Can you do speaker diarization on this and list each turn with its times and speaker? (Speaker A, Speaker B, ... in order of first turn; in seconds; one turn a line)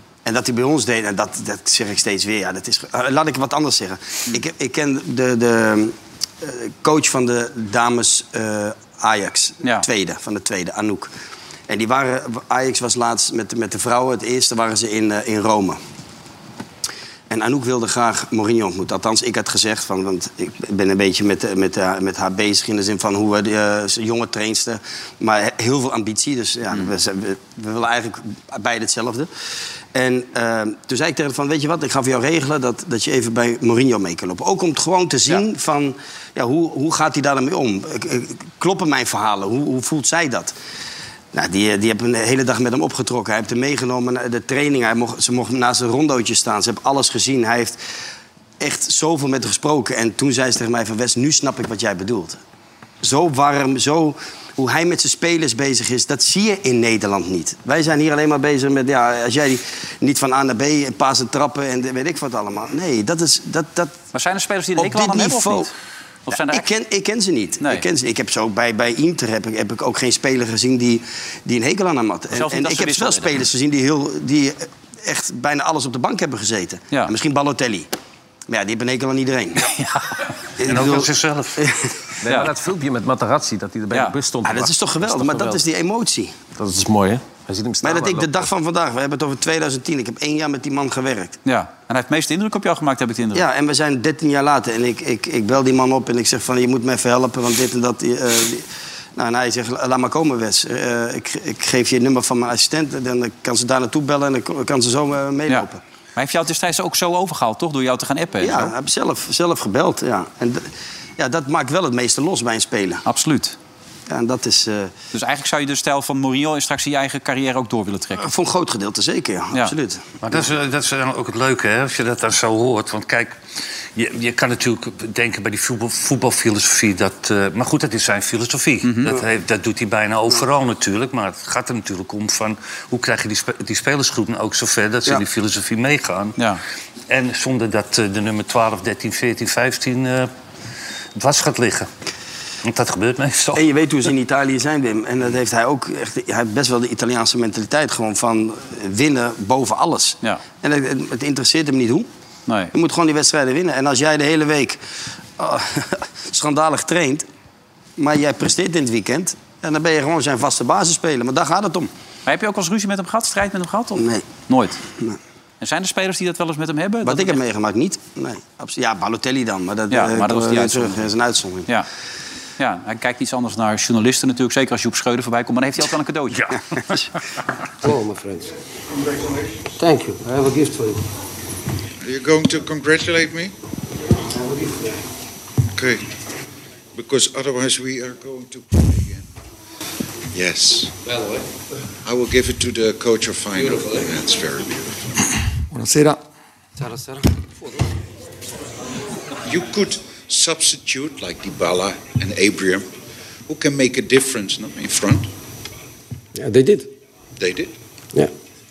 Speaker A: 0.2-11.1
Speaker A: 11.7-15.8
Speaker A: 17.3-29.3
Speaker A: 29.9-40.5
Speaker A: 41.3-47.8
Speaker A: 48.6-52.4
Speaker A: 53.0-64.0
Speaker B: 64.1-65.7
Speaker A: 64.8-65.7
Speaker B: 66.3-66.7
Speaker A: 66.3-77.9
Speaker B: 72.3-73.3
Speaker A: 78.5-79.7
Speaker B: 79.7-80.0
Speaker A: 80.6-81.7
Speaker C: 80.6-81.6
Speaker D: 82.2-85.6
Speaker A: 84.4-86.3
Speaker D: 86.6-88.5
Speaker A: 87.8-91.4
Speaker B: 91.5-93.5
Speaker A: 93.3-98.6
Speaker A: 99.2-105.8
Speaker B: 105.5-108.7
Speaker A: 108.4-113.0
Speaker B: 113.0-113.5
Speaker A: 114.1-114.9
Speaker B: 115.1-118.2
Speaker A: 118.2-120.2
Speaker C: 120.2-123.4
Speaker C: 123.9-136.4
Speaker B: 128.8-129.1
Speaker C: 137.1-140.3
Speaker C: 141.2-141.9
Speaker C: 142.6-143.6
Speaker A: 143.5-152.1
Speaker B: 152.5-152.7
Speaker A: 152.7-154.8
Speaker A: 155.4-157.2
Speaker A: 158.0-161.9
Speaker B: 162.2-164.8
Speaker A: 163.9-164.3
Speaker B: 165.6-167.4
Speaker A: 167.0-171.7
Speaker B: 169.9-171.1
Speaker B: 172.6-176.5
Speaker C: 176.3-177.0
Speaker E: 177.8-178.5
Speaker E: 179.8-181.0
Speaker F: 182.0-183.5
Speaker F: 185.7-186.0
Speaker F: 186.9-189.2
Speaker F: 190.3-190.9
Speaker F: 192.0-194.9
Speaker E: 196.8-197.2
Speaker F: 199.4-202.8
Speaker F: 203.5-205.3
Speaker E: 206.3-206.9
Speaker F: 207.4-207.7